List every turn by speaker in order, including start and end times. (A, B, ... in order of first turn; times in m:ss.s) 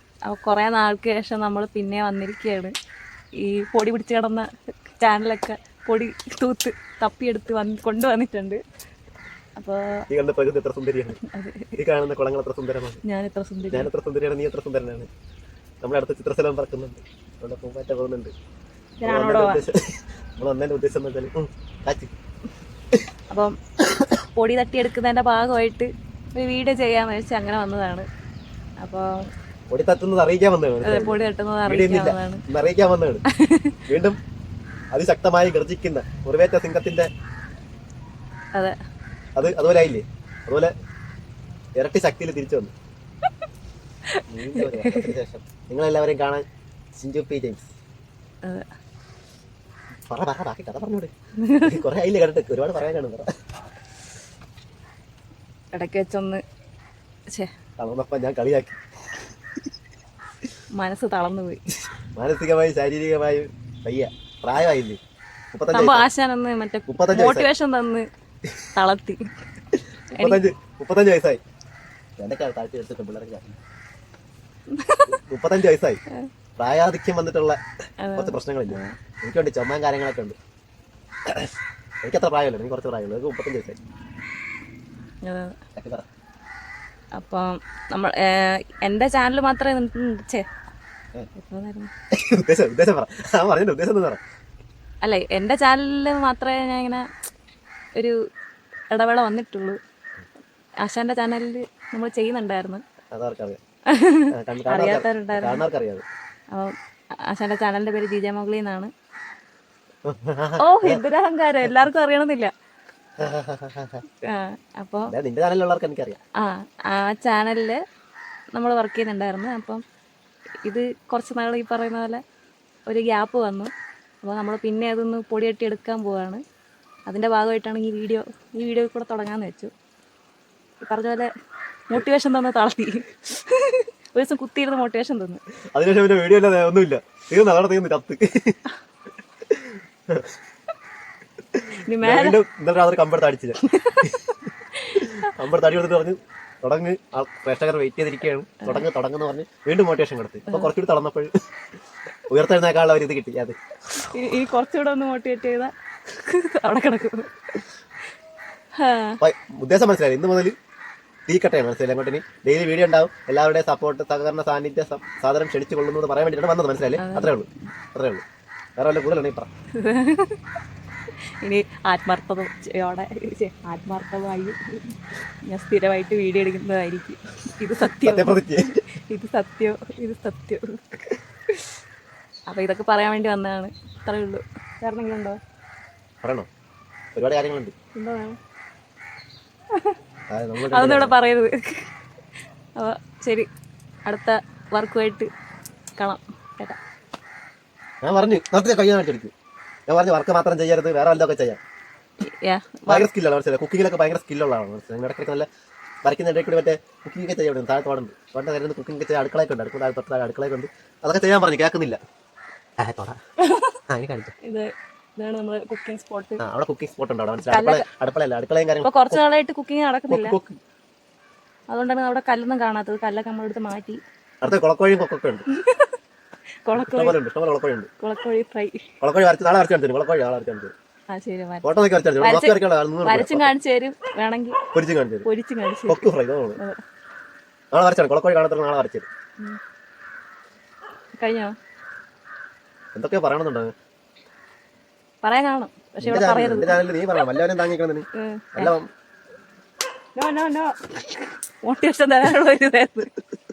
0:00.3-0:02.7 A
0:03.4-0:08.6 A
0:09.6-0:09.8 A
0:10.1-0:11.2 B
0:11.2-0:11.8 A
0:11.8-0:13.0 B
0:13.0-0:13.9 A
0:13.7-0:15.1 B
0:15.8-0:18.3 B
0:19.0-0:19.6 A
0:19.0-0:22.1 B
0:24.4-0:28.0 A
0:28.8-0:29.1 A
0:29.7-0:33.2 B
0:30.8-0:32.4 A
0:33.3-0:33.8 A
0:33.9-0:34.2 B
0:34.9-0:37.1 B
0:39.4-0:40.7 B
0:41.8-0:42.7 B
0:44.1-0:45.1 A
0:44.3-0:47.7 B
0:50.1-0:53.3 B
0:51.4-0:51.8 A
0:55.7-0:56.4 A
0:57.8-0:58.8 B
1:00.8-1:01.6 A
1:02.2-1:05.0 B
1:05.5-1:06.1 B
1:05.7-1:08.0 A
1:06.9-1:07.5 B
1:08.8-1:09.4 A
1:10.1-1:11.4 B
1:10.1-1:10.4 A
1:12.2-1:13.6 B
1:14.7-1:15.2 A
1:15.1-1:16.0 B
1:16.6-1:17.6 B
1:18.0-1:18.9 A
1:18.1-1:20.4 B
1:22.0-1:23.8 B
1:25.2-1:25.6 A
1:25.8-1:26.0 B
1:27.2-1:30.4 A
1:31.3-1:31.9 A
1:32.1-1:34.2 B
1:35.0-1:37.0 A
1:38.9-1:39.8 A
1:40.8-1:42.8 A
1:43.1-1:43.6 B
1:43.9-1:45.6 A
1:44.3-1:46.0 B
1:47.3-1:48.9 A
1:50.0-1:51.0 B
1:50.6-1:52.5 A
1:53.2-1:54.0 B
1:54.2-1:55.1 A
1:55.1-1:56.2 B
1:56.4-1:57.8 A
1:58.5-1:59.8 A
2:00.6-2:02.2 A
2:02.9-2:03.7 A
2:04.2-2:06.4 A
2:07.1-2:09.7 A
2:10.8-2:11.3 A
2:11.9-2:15.4 A
2:15.7-2:18.6 B
2:19.5-2:20.3 B
2:21.5-2:24.2 B
2:21.9-2:22.4 A
2:23.6-2:24.2 A
2:24.7-2:25.3 A
2:25.0-2:31.3 B
2:32.3-2:33.6 B
2:34.0-2:37.6 A
2:38.8-2:39.2 A
2:39.2-2:40.5 B
2:41.3-2:48.2 B
2:47.0-2:47.3 A
2:48.8-2:49.5 B
2:49.8-2:50.4 A
2:51.4-3:01.7 A
2:58.0-2:58.8 B
3:02.5-3:05.4 A
3:06.2-3:06.5 B
3:07.1-3:07.7 B
3:08.0-3:08.4 A
3:10.3-3:11.1 B
3:10.7-3:11.9 A
3:12.8-3:13.5 A
3:14.1-3:15.3 A
3:16.0-3:16.8 A
3:18.0-3:19.3 B
3:19.9-3:21.6 B
3:22.2-3:23.1 A
3:22.9-3:25.5 B
3:26.0-3:32.0 B
3:32.8-3:33.2 B
3:33.4-3:33.8 A
3:33.9-3:34.3 B
3:34.4-3:36.4 A
3:36.4-3:39.2 B
3:37.5-3:37.8 A
3:38.8-3:40.4 A
3:40.1-3:40.6 B
3:41.7-3:44.0 A
3:44.4-3:45.4 B
3:45.5-3:46.0 A
3:46.6-3:47.1 A
3:46.8-3:47.9 B
3:48.0-3:48.9 A
3:49.0-3:50.7 B
3:51.1-3:51.7 A
3:51.6-3:53.5 B
3:52.2-3:54.6 A
3:54.7-3:55.2 B
3:55.2-3:56.8 A
3:55.9-3:56.6 B
3:57.7-3:59.1 B
4:01.2-4:01.5 A
4:02.9-4:03.7 B
4:05.2-4:06.8 A
4:06.0-4:08.9 B
4:08.2-4:08.7 A
4:10.2-4:13.1 A